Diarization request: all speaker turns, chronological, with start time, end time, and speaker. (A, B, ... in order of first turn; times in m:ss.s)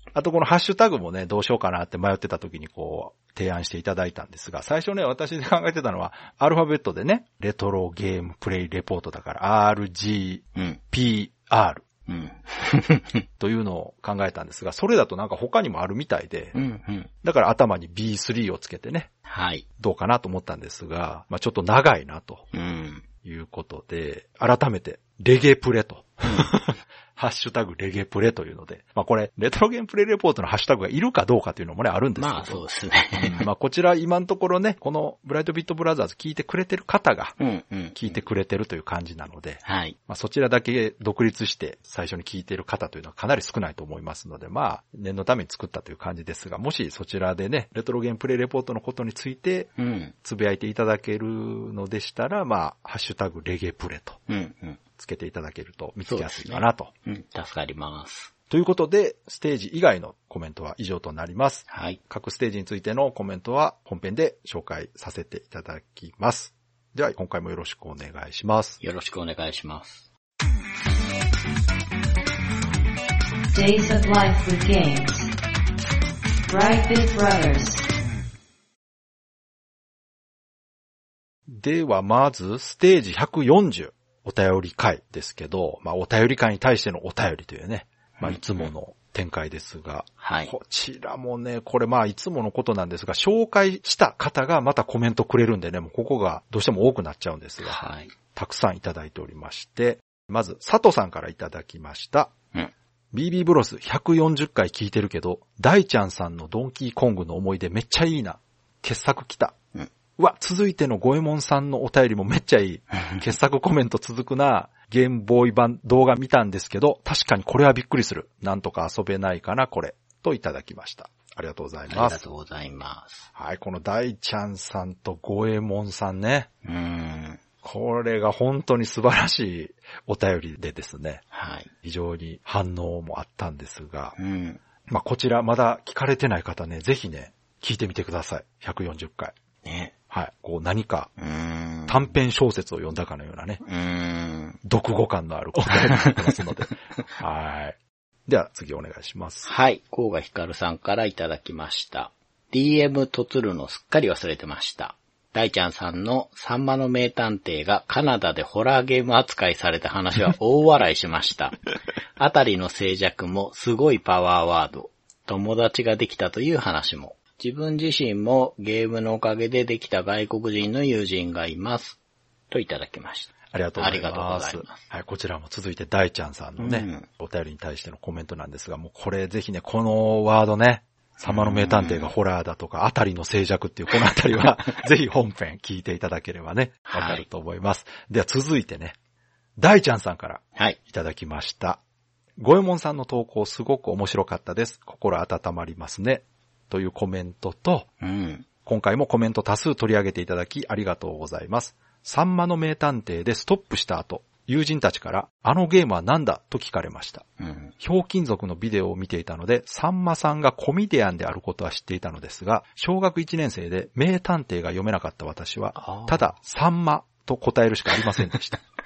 0:00.1-0:11.8 A
0:10.6-0:10.8 B
0:12.1-0:13.2 B
0:13.4-0:16.6 A
0:16.5-0:17.1 B
0:17.2-0:19.1 A
0:19.3-0:19.6 B
0:19.8-0:22.5 A
0:22.5-0:23.1 B
0:23.2-0:32.6 A
0:26.2-0:26.5 B
0:32.2-0:33.5 B
0:33.2-0:37.4 A
0:37.4-0:38.2 B
0:38.0-0:49.7 A
0:39.6-0:40.0 B
0:49.8-0:50.1 B
0:50.2-0:54.2 A
0:54.3-0:54.8 B
0:55.0-0:56.9 A
0:56.1-0:58.3 B
0:58.5-1:08.8 A
1:01.7-1:02.0 B
1:08.8-1:10.1 B
1:13.5-1:15.3 C
1:16.5-1:17.9 C
1:21.5-1:37.8 A
1:28.2-1:28.7 B
1:30.2-1:30.5 B
1:37.6-1:38.1 B
1:38.4-1:42.3 A
1:43.1-1:49.6 A
1:50.2-2:02.2 A
1:52.9-1:53.2 B
2:01.9-2:03.3 B
2:03.4-2:06.5 A
2:06.6-2:07.4 B
2:07.6-2:11.2 A
2:11.3-2:11.7 B
2:11.8-2:14.2 A
2:14.2-2:14.6 B
2:14.9-2:19.4 A
2:19.6-2:19.9 B
2:20.1-2:21.1 A
2:21.2-2:22.1 B
2:21.9-2:23.6 A
2:23.6-2:24.6 B
2:24.6-2:29.5 A
2:25.7-2:26.4 B
2:29.4-2:41.6 B
2:42.2-2:52.0 B
2:52.5-2:54.9 B
2:53.5-3:09.0 A
2:56.6-2:57.1 B
3:01.2-3:02.1 B
3:06.9-3:07.2 B
3:09.6-3:11.8 A
3:12.4-3:17.9 A
3:18.0-3:18.5 B
3:18.6-3:27.3 A
3:27.4-3:27.7 B
3:27.8-3:38.6 A
3:35.8-3:36.3 B